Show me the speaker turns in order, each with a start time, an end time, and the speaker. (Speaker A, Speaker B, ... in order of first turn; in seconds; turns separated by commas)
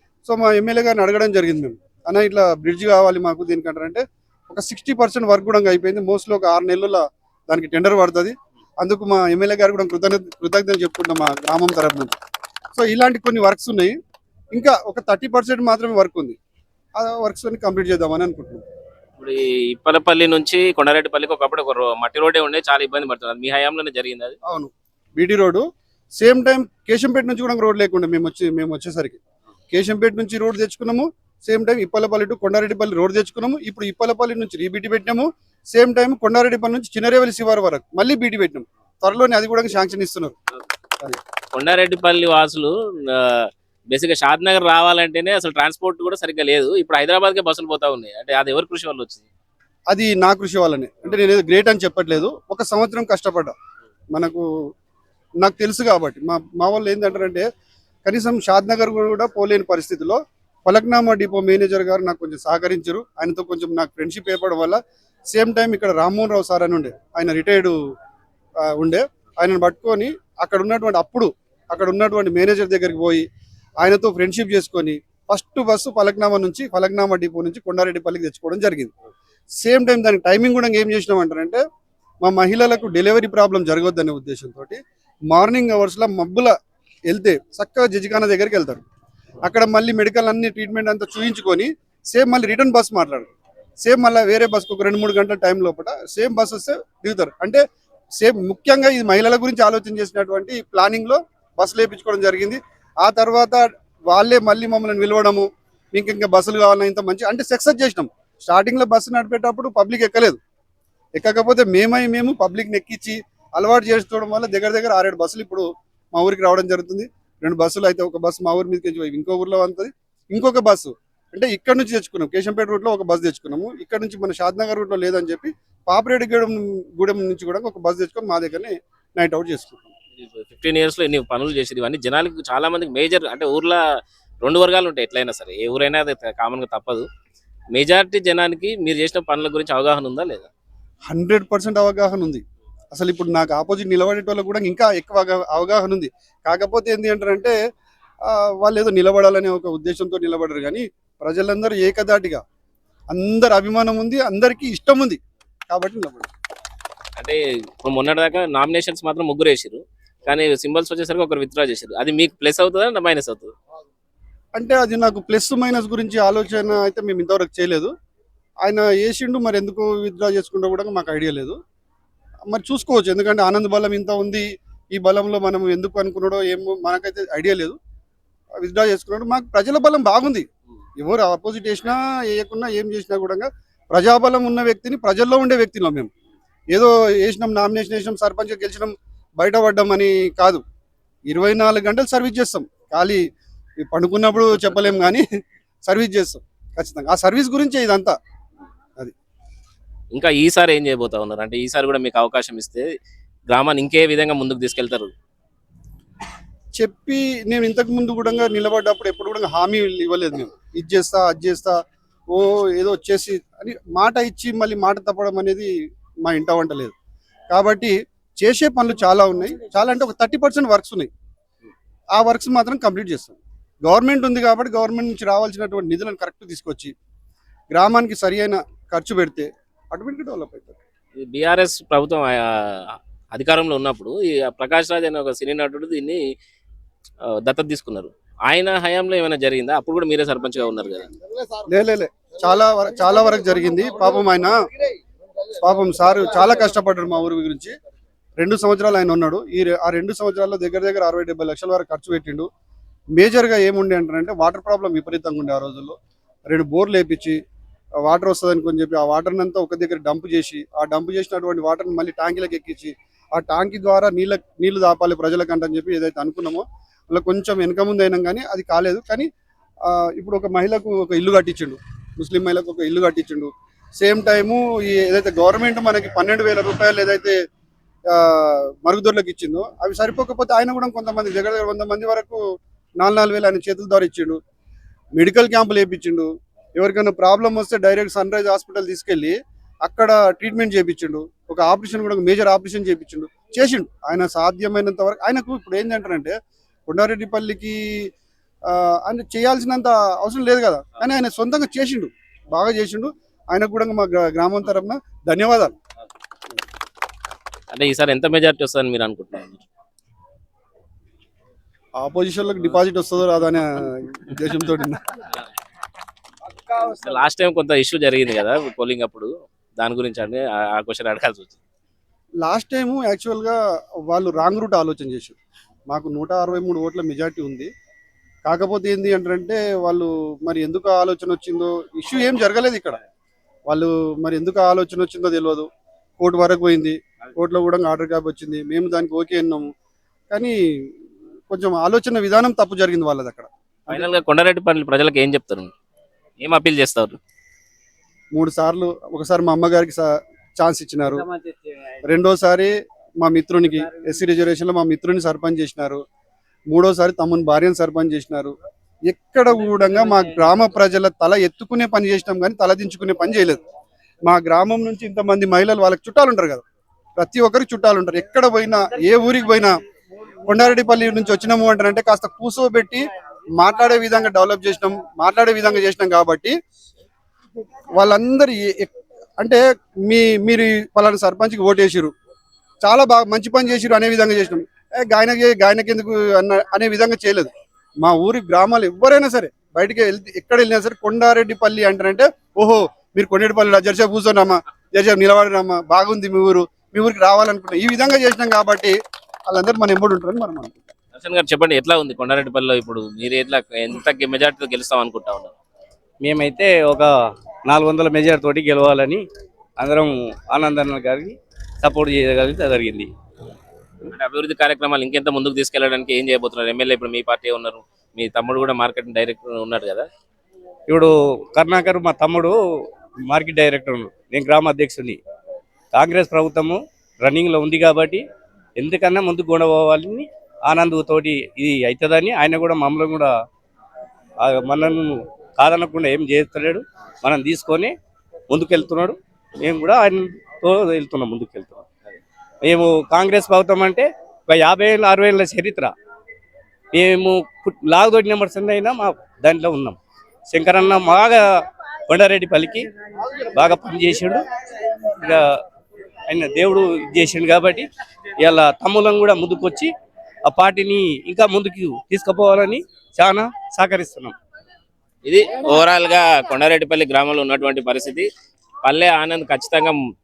Speaker A: 0.2-12.2, Speaker A: 12.8-13.9, Speaker A: 14.5-16.4, Speaker A: 16.9-18.6, Speaker B: 19.2-24.3, Speaker A: 24.4-25.6, Speaker A: 26.2-29.2, Speaker A: 29.7-40.4, Speaker B: 41.5-49.2, Speaker A: 49.9-53.5, Speaker A: 54.1-54.5, Speaker A: 55.4-57.5, Speaker A: 58.0-64.8, Speaker A: 65.3-67.8, Speaker A: 68.6-73.2, Speaker A: 73.8-78.9, Speaker A: 79.6-81.6, Speaker A: 82.2-84.8, Speaker A: 85.3-86.5, Speaker A: 87.1-88.8, Speaker A: 89.4-93.3, Speaker A: 93.8-97.6, Speaker A: 98.2-110.4, Speaker A: 111.2-129.9, Speaker B: 130.2-133.8, Speaker B: 134.4-137.1, Speaker B: 137.7-140.5, Speaker A: 141.1-147.5, Speaker A: 148.2-152.4, Speaker A: 153.1-156.3, Speaker B: 157.2-163.5, Speaker A: 164.5-167.9, Speaker A: 168.6-171.6, Speaker A: 172.5-177.8, Speaker A: 178.6-180.4, Speaker A: 181.0-186.1, Speaker A: 186.7-190.6, Speaker A: 191.3-193.2, Speaker A: 193.8-195.2, Speaker A: 195.8-198.2, Speaker B: 200.1-202.9, Speaker B: 203.5-205.1, Speaker A: 206.8-211.8, Speaker A: 212.3-215.7, Speaker A: 216.2-216.9, Speaker A: 217.5-221.1, Speaker A: 222.2-226.9, Speaker A: 227.7-230.8, Speaker B: 231.2-236.2, Speaker B: 237.3-241.1, Speaker A: 241.7-244.5, Speaker A: 245.6-247.7, Speaker A: 248.4-252.5, Speaker A: 253.1-255.9, Speaker A: 256.5-257.4, Speaker A: 258.0-269.3, Speaker A: 269.8-277.4, Speaker A: 278.1-282.4, Speaker A: 283.0-284.4, Speaker A: 285.1-296.3, Speaker A: 296.9-298.1, Speaker A: 298.6-305.7, Speaker B: 307.7-309.6, Speaker A: 312.0-315.0, Speaker B: 316.7-321.6, Speaker A: 322.4-325.4, Speaker A: 325.9-327.7, Speaker A: 328.4-333.0, Speaker A: 333.7-335.7, Speaker A: 336.2-339.7, Speaker A: 340.3-340.9, Speaker A: 341.5-344.1, Speaker B: 343.9-345.7, Speaker B: 346.4-347.2, Speaker A: 348.3-351.3, Speaker A: 352.0-356.0, Speaker A: 356.7-358.5, Speaker A: 359.1-363.6, Speaker A: 364.2-366.6, Speaker A: 367.2-369.7, Speaker A: 370.4-376.5, Speaker A: 377.9-382.1, Speaker A: 382.8-387.5, Speaker A: 388.0-398.9, Speaker A: 399.5-400.9, Speaker B: 401.1-405.5, Speaker C: 406.2-407.1, Speaker C: 407.6-409.2, Speaker C: 409.8-413.1, Speaker B: 414.1-420.1, Speaker C: 420.9-425.2, Speaker C: 425.9-428.2, Speaker C: 428.8-433.3, Speaker C: 434.4-437.9, Speaker C: 438.5-441.9, Speaker C: 442.6-445.9, Speaker C: 446.9-450.0, Speaker C: 450.5-455.6, Speaker C: 456.3-457.9, Speaker C: 458.4-459.9, Speaker C: 460.4-464.3, Speaker B: 465.2-468.3, Speaker B: 468.8-470.0